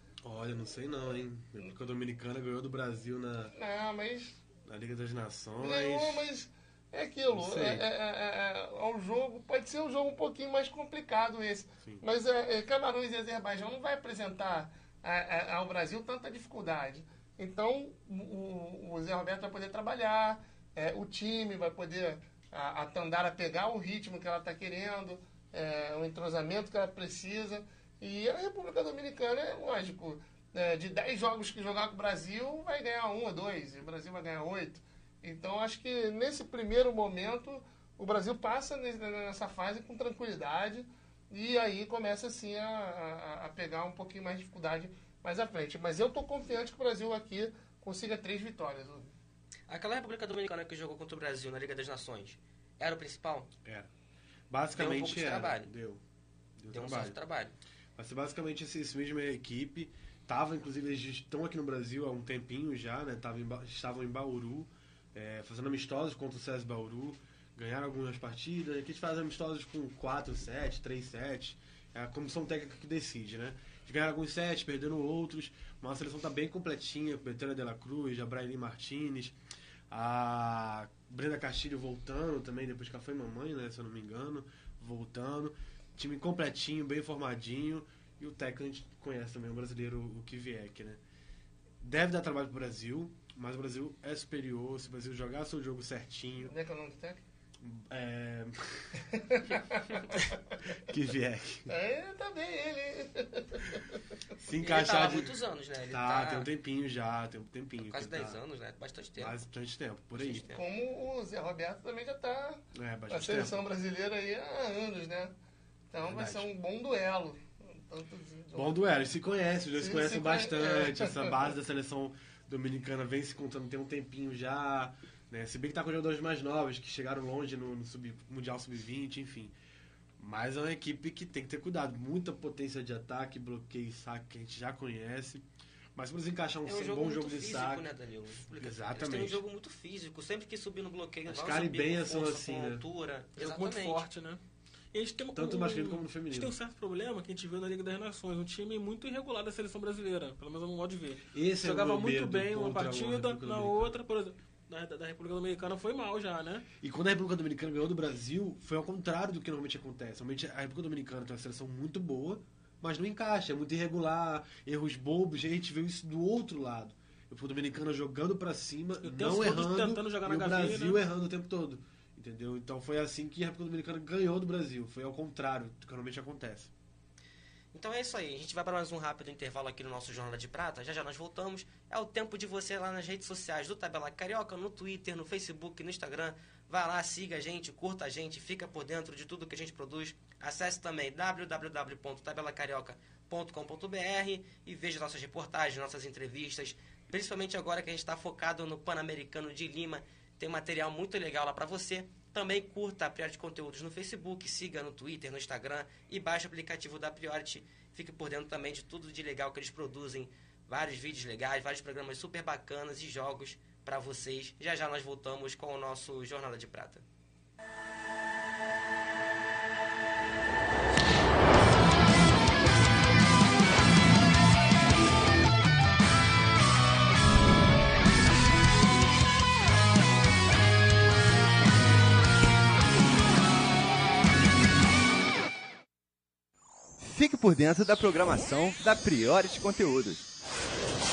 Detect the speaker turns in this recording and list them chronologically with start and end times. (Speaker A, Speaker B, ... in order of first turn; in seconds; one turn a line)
Speaker A: 0.2-3.5
Speaker B: 3.5-4.4
Speaker A: 4.6-6.2
Speaker B: 5.6-49.1
Speaker A: 7.3-7.8
Speaker C: 49.7-53.5
Speaker A: 54.5-56.0
Speaker C: 54.7-55.7
Speaker A: 56.6-57.2
Speaker C: 56.7-57.5
Speaker A: 58.0-79.4
Speaker A: 79.9-91.0
Speaker A: 91.8-96.5
Speaker B: 96.4-97.2
Speaker A: 97.6-98.9
Speaker B: 99.1-100.4
Speaker A: 100.9-101.7
Speaker B: 101.7-104.0
Speaker A: 104.4-108.4
Speaker C: 104.6-106.5
Speaker C: 107.8-109.4
Speaker A: 109.2-110.5
Speaker C: 110.2-110.6
Speaker B: 110.5-115.3
Speaker A: 112.7-113.6
Speaker B: 115.9-118.8
Speaker A: 116.0-116.5
Speaker A: 118.5-129.5
Speaker B: 119.8-121.4
Speaker A: 130.2-135.4
Speaker A: 135.9-139.4
Speaker C: 136.6-144.1
Speaker A: 141.3-142.8
Speaker D: 143.4-144.4
Speaker D: 144.9-156.7
Speaker A: 145.3-146.6
Speaker A: 151.3-153.9
Speaker A: 156.8-176.7
Speaker D: 169.0-171.0
Speaker C: 177.7-217.1
Speaker E: 237.0-240.3